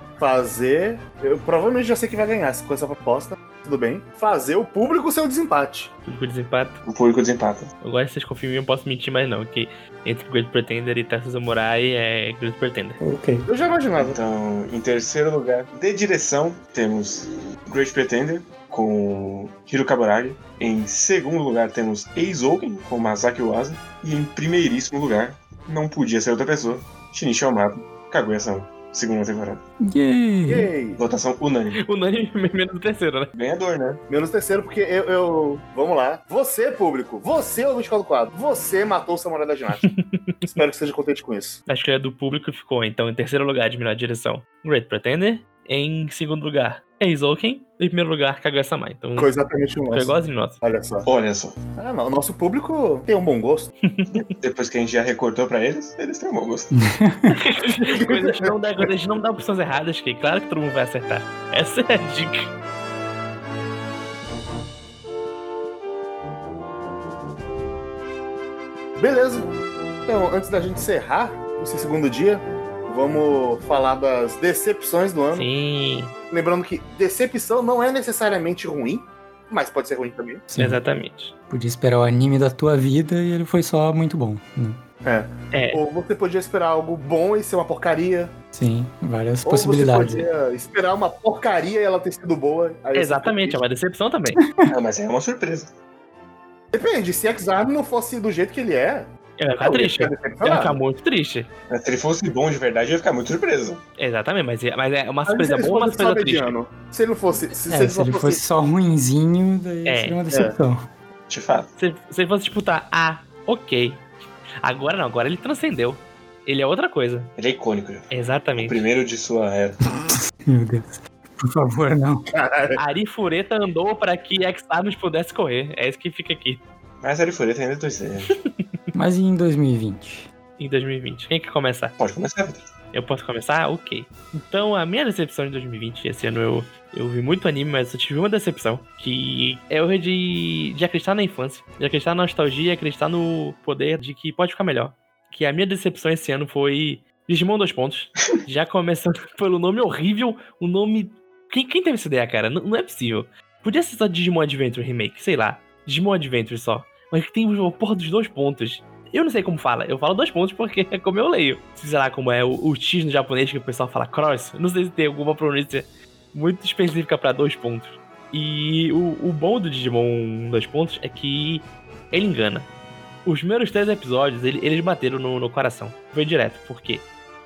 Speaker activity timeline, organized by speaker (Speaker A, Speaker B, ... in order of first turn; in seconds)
Speaker A: 0.2-5.9, 13.5-14.2, 30.5-31.0, 34.1-39.9, 40.4-41.6, 49.1-51.0, 51.8-53.7, 57.9-58.9, 69.0-69.5, 70.0-75.5, 76.3-80.5, 85.0-88.3, 89.4-93.6, 96.7-100.8, 105.2-108.4, 110.3-110.5, 122.3-122.8
Speaker B: 6.0-6.8, 7.8-13.0, 31.8-33.3, 39.8-40.5, 41.7-49.3, 49.9-50.6, 53.8-54.3, 57.3-62.5, 75.3-76.1, 80.6-81.3, 85.5-85.8, 92.9-94.4, 99.4-101.5, 104.0-106.5, 109.8-110.2, 111.8-114.1, 114.6-117.3, 118.1-118.8, 122.8-126.6, 130.6-131.9, 132.9-172.7, 173.2-177.1
Speaker C: 6.8-7.7, 13.9-29.6, 31.0-31.8, 33.3-34.0, 51.0-51.6, 54.1-56.8, 94.7-95.7, 101.7-103.8, 111.3-111.7, 117.4-119.8, 127.0-128.4, 132.0-132.7
Speaker D: 13.0-13.5, 29.9-30.7, 56.7-57.4, 80.5-80.8, 81.5-84.8, 88.5-90.3, 94.4-94.7, 107.7-110.8, 120.5-122.2, 128.9-130.3